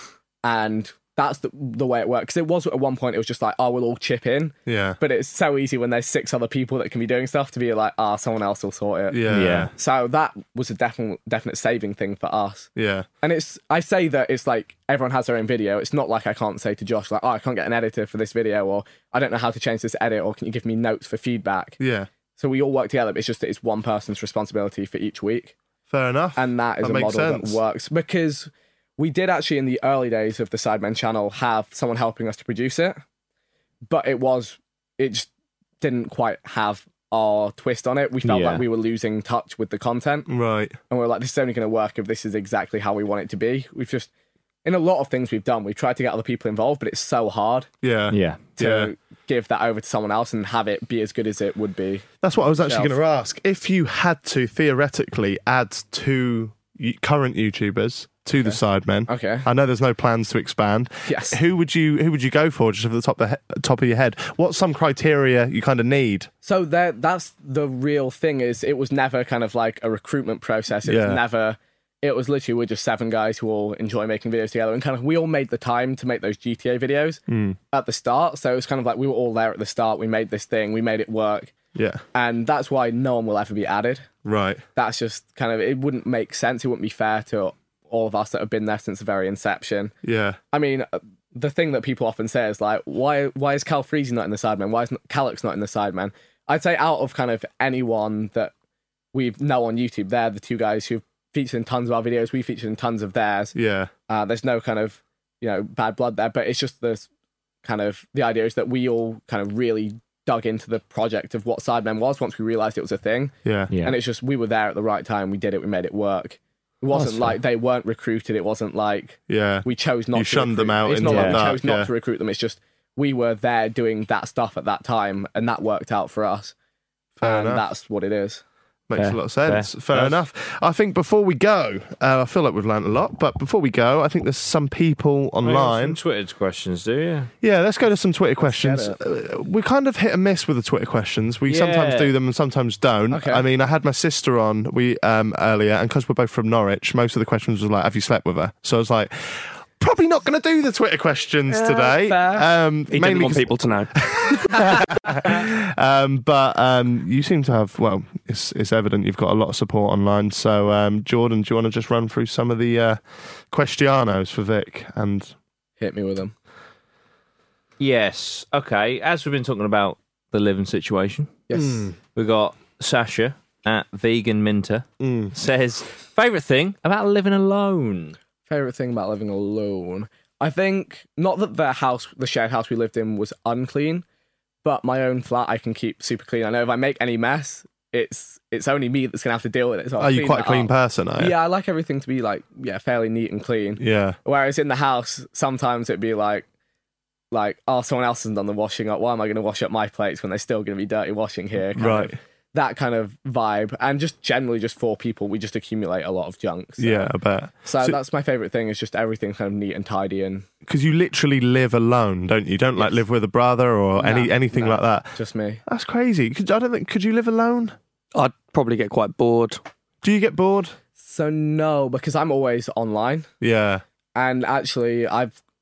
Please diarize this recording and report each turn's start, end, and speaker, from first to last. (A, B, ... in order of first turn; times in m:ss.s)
0:00.4-0:09.2 A
0:04.7-0:05.0 B
0:09.1-0:09.7 B
0:09.3-0:09.7 C
0:09.8-0:12.7 A
0:12.8-0:13.1 B
0:13.2-0:21.8 A
0:21.8-0:22.1 B
0:22.4-0:25.6 A
0:25.9-0:27.6 B
0:26.4-0:33.0 A
0:33.9-0:35.3 A
0:35.8-0:40.3 A
0:38.2-0:38.6 C
0:40.3-0:40.8 B
0:40.9-0:44.1 A
0:44.6-0:47.7 A
0:47.8-0:48.9 B
0:48.1-0:48.4 C
0:48.6-0:52.1 A
0:52.2-1:06.3 B
0:52.6-0:52.9 A
0:58.4-0:59.5 A
1:01.1-1:01.4 A
1:06.4-1:17.2 A
1:10.9-1:11.2 B
1:17.3-1:17.6 B
1:17.7-1:21.5 A
1:21.8-1:22.0 B
1:22.1-1:24.1 A
1:24.2-1:24.6 B
1:24.8-1:29.9 A
1:30.0-1:30.4 B
1:30.5-1:38.5 A
1:39.1-1:43.6 A
1:43.5-1:43.9 B
1:44.1-1:47.1 A
1:47.6-2:06.5 A
1:53.4-1:53.7 B
1:53.7-1:54.0 C
1:56.9-1:57.4 C
1:59.3-2:01.9 B
2:01.0-2:01.4 C
2:07.2-2:07.6 B
2:07.2-2:08.4 A
2:08.9-2:16.0 B
2:09.0-2:10.2 C
2:15.4-2:17.3 C
2:17.4-2:43.0 B
2:18.4-2:19.0 A
2:21.5-2:22.1 C
2:23.1-2:23.4 A
2:31.5-2:32.5 A
2:32.9-2:33.9 D
2:43.5-2:45.3 B
2:45.8-2:46.3 A
2:47.8-2:58.2 C
2:51.5-2:51.9 A
2:51.5-2:51.9 B
2:55.0-2:55.3 B
2:58.5-3:04.0 A
3:04.6-3:16.5 A
3:10.0-3:11.4 B
3:13.8-3:14.2 B
3:17.3-3:27.1 A
3:21.8-3:22.2 B
3:26.8-3:28.0 B
3:27.6-3:30.5 A
3:30.6-3:35.2 B
3:34.0-3:35.6 A
3:35.7-3:37.8 B
3:38.2-3:39.6 D
3:40.0-3:40.8 B
3:41.0-3:43.3 A
3:43.4-3:43.8 B
3:44.2-3:45.4 A